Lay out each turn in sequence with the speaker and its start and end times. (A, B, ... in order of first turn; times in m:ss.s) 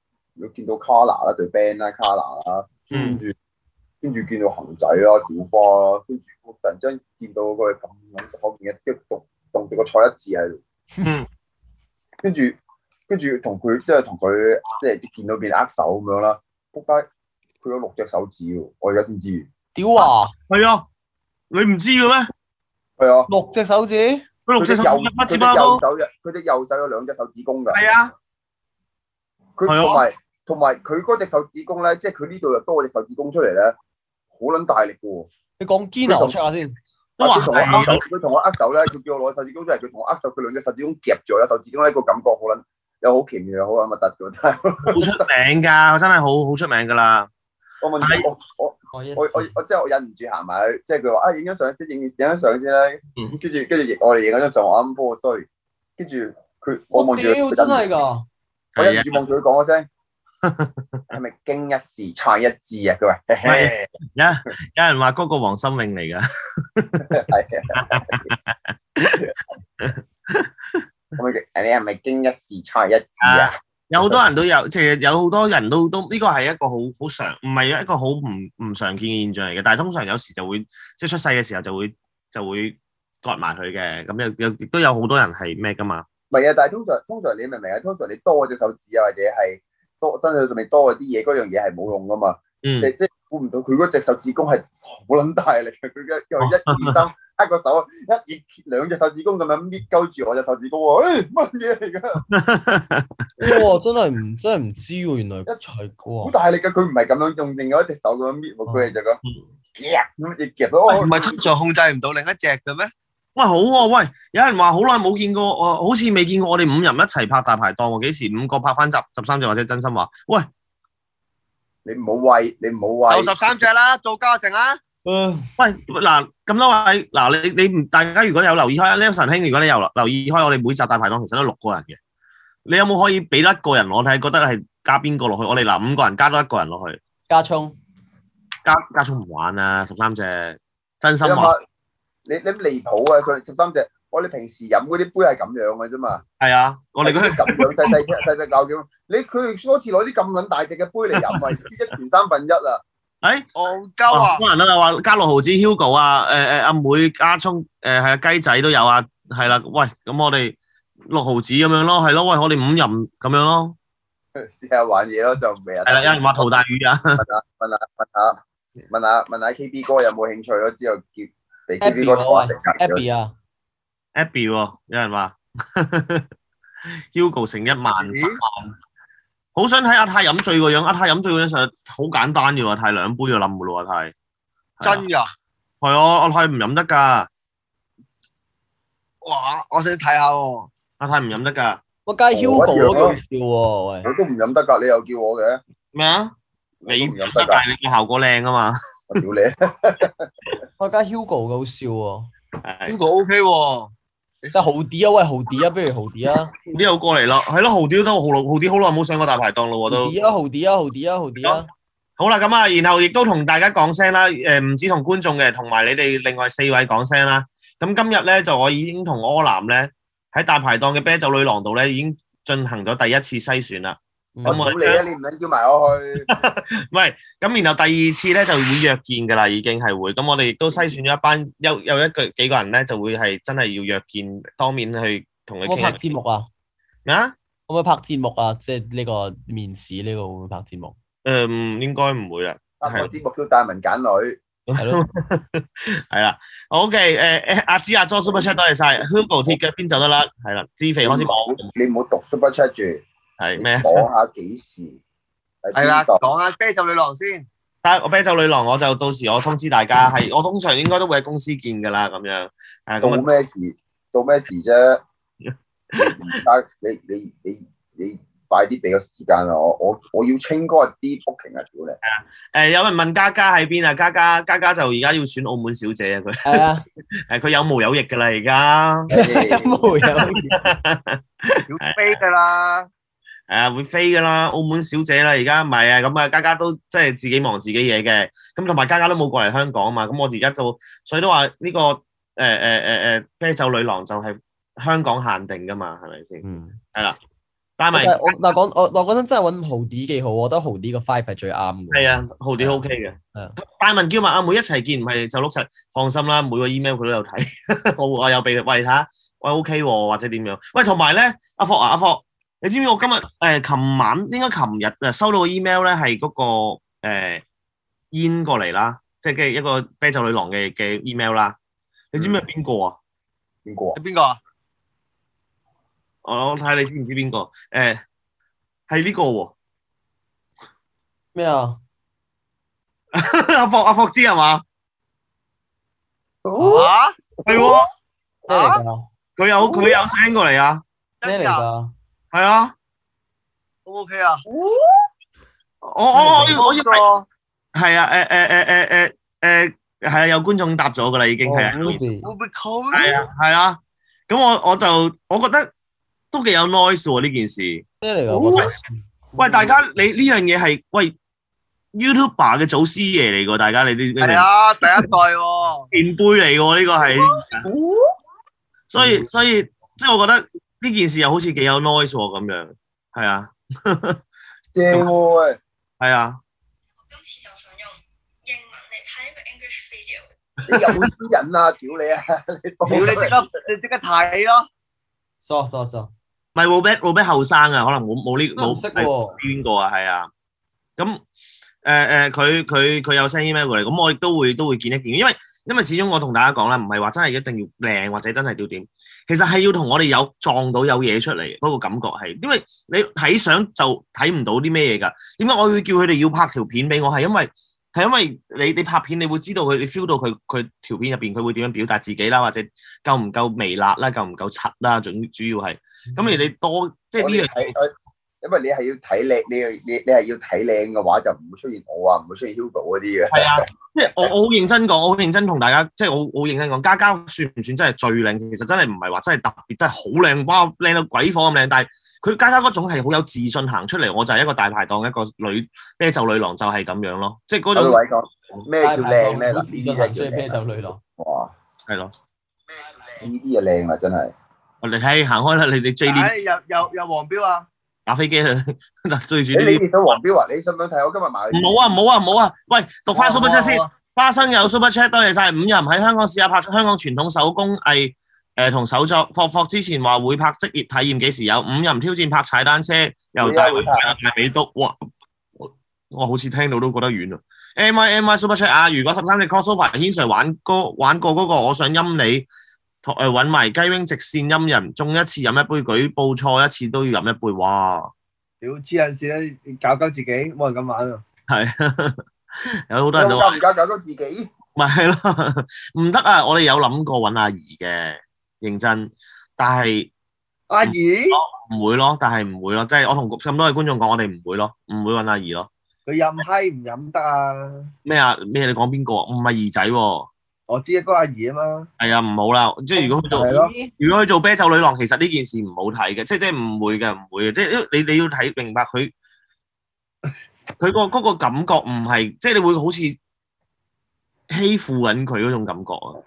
0:00.4-0:03.3 A
0:02.9-0:03.2 B
0:02.9-0:03.2 C
0:04.0-0:10.6 A
0:12.2-0:17.1 A
0:17.6-0:19.5 A
0:19.8-0:20.3 B
0:20.5-0:20.9 C
0:21.5-0:22.3 C
0:23.0-0:23.3 A
0:23.3-0:24.3 B
0:24.5-0:25.8 C
0:24.6-0:27.8 A
0:27.7-0:28.1 C
0:29.6-0:33.8 A
0:29.7-0:30.0 C
0:34.3-0:35.3 A
0:35.6-0:36.8 B
0:36.0-0:36.4 A
0:37.2-0:38.0 C
0:37.2-0:45.2 A
0:44.9-0:47.3 C
0:47.8-0:57.8 A
0:48.0-0:48.3 C
0:48.9-0:49.5 B
0:56.9-0:58.3 B
0:58.8-0:59.2 C
0:58.8-0:59.9 A
1:00.4-1:01.0 C
1:01.1-1:03.8 A
1:03.4-1:07.2 C
1:07.1-1:08.3 A
1:07.7-1:09.2 C
1:09.8-1:10.8 C
1:11.2-1:14.2 A
1:13.2-1:26.0 C
1:26.3-1:42.2 A
1:32.6-1:32.9 C
1:36.4-1:37.0 C
1:42.3-1:43.1 C
1:43.4-1:46.3 B
1:46.2-1:49.2 A
1:49.8-1:51.4 A
1:50.9-1:52.9 D
1:53.4-2:00.5 C
2:01.8-2:03.4 A
2:03.1-2:04.8 D
2:05.0-2:05.5 B
2:05.6-2:12.0 C
2:12.7-2:17.0 C
2:17.3-2:17.8 B
2:18.6-2:21.5 C
2:21.2-2:21.6 A
2:22.3-2:26.2 A
2:26.4-2:28.0 C
2:27.0-2:32.8 A
2:33.6-2:34.4 D
2:34.1-2:40.6 C
2:41.1-2:43.8 C
2:44.4-2:46.6 A
2:45.9-2:47.2 C
2:47.2-2:53.0 A
2:51.8-2:53.3 B
2:54.2-2:56.3 C
2:57.1-2:58.8 C
2:58.0-2:58.4 D
2:59.6-3:04.1 C
3:04.8-3:05.1 C
3:04.8-3:05.3 D
3:05.8-3:07.3 C
3:09.2-3:10.7 D
3:11.0-3:11.8 C
3:12.1-3:14.1 B
3:12.3-3:13.2 A
3:14.0-3:15.6 A
3:15.9-3:16.3 C
3:16.8-3:17.6 A
3:16.9-3:18.8 C
3:19.1-3:20.3 A
3:20.8-3:22.3 B
3:22.6-3:23.0 C
3:22.9-3:23.9 D
3:24.5-3:26.5 B
3:26.7-3:30.2 C
3:29.9-3:31.7 B
3:32.2-3:45.0 C
3:44.4-3:44.6 B
3:44.4-3:46.3 A
3:46.3-3:56.0 C
3:55.6-3:56.5 B
3:57.1-3:57.3 C
3:57.7-4:01.0 B
4:01.2-4:03.1 C
4:02.8-4:04.4 A
4:04.7-4:11.7 C
4:04.8-4:05.0 B
4:08.3-4:08.6 A
4:11.0-4:13.0 A
4:13.4-4:14.1 C
4:13.6-4:15.0 A
4:15.6-4:16.2 A
4:15.8-4:17.5 D
4:17.8-4:23.3 C
4:23.0-4:25.0 A
4:25.5-4:26.2 C
4:26.0-4:32.0 A
4:32.0-4:36.7 C
4:36.4-4:36.8 B
4:37.3-4:39.1 C
4:39.1-4:40.0 A
4:39.1-4:40.7 B
4:40.1-4:42.2 C
4:41.7-4:42.9 D
4:43.5-4:57.2 C
4:56.4-4:56.8 B
4:57.8-4:58.6 C
4:57.9-5:02.1 B
5:01.9-5:17.4 C
5:18.1-5:21.6 C
5:22.1-5:23.0 C
5:22.2-5:22.4 A
5:23.6-5:24.0 A
5:24.0-5:24.4 D
5:26.2-5:28.0 C
5:28.9-5:29.5 C
5:31.4-5:31.8 B
5:33.1-5:34.6 C
5:36.4-5:36.9 A
5:36.6-5:36.9 B
5:36.7-5:37.2 D
5:37.5-5:37.8 A
5:37.5-5:37.9 C
5:38.5-5:38.8 D
5:38.5-5:39.1 B
5:39.4-5:40.8 C
5:39.6-5:40.0 A
5:41.2-5:41.6 D
5:41.2-5:41.9 B
5:42.3-5:42.7 C
5:43.9-5:44.4 D
5:44.5-5:44.8 A
5:45.8-5:47.1 C
5:46.2-5:46.6 B
5:46.3-5:47.3 D
5:47.8-5:52.0 C
5:51.4-5:52.3 B
5:52.2-5:53.2 D
5:52.9-5:55.7 C
5:56.3-5:57.8 C
5:58.0-5:58.9 B
5:59.4-6:01.1 C
5:59.4-5:59.7 D
6:01.9-6:04.5 C
6:04.2-6:05.9 D
6:05.9-6:07.6 C
6:07.6-6:08.0 A
6:08.9-6:14.2 C
6:14.7-6:15.6 A
6:16.0-6:16.4 C
6:17.1-6:20.2 E
6:20.7-6:23.4 A
6:20.7-6:21.0 C
6:22.9-6:24.7 D
6:22.9-6:23.2 B
6:25.4-6:26.1 B
6:26.6-6:30.3 C
6:28.6-6:29.4 B
6:31.8-6:57.7 C
6:57.2-7:04.3 A
7:03.3-7:18.0 C
7:17.7-7:20.6 A
7:18.8-7:21.0 B
7:21.2-7:21.5 A
7:21.9-7:22.1 C
7:23.2-7:24.3 A
7:24.8-7:26.3 C
7:26.0-7:27.7 D
7:28.1-7:29.9 C
7:29.5-7:31.8 A
7:31.5-7:45.0 C
7:33.1-7:33.9 D
7:43.4-7:44.1 A
7:45.6-7:52.5 C
7:53.0-7:58.1 C
7:58.6-8:01.2 D
8:01.5-8:02.2 C
8:02.9-8:03.6 C
8:03.1-8:04.5 A
8:04.8-8:10.1 C
8:10.7-8:11.4 D
8:10.8-8:15.7 C
8:16.1-8:17.9 D
8:18.0-8:20.3 C
8:20.7-8:21.9 D
8:22.0-8:29.1 C
8:23.0-8:23.9 B
8:23.2-8:23.7 D
8:30.8-8:33.2 C
8:34.5-8:36.2 C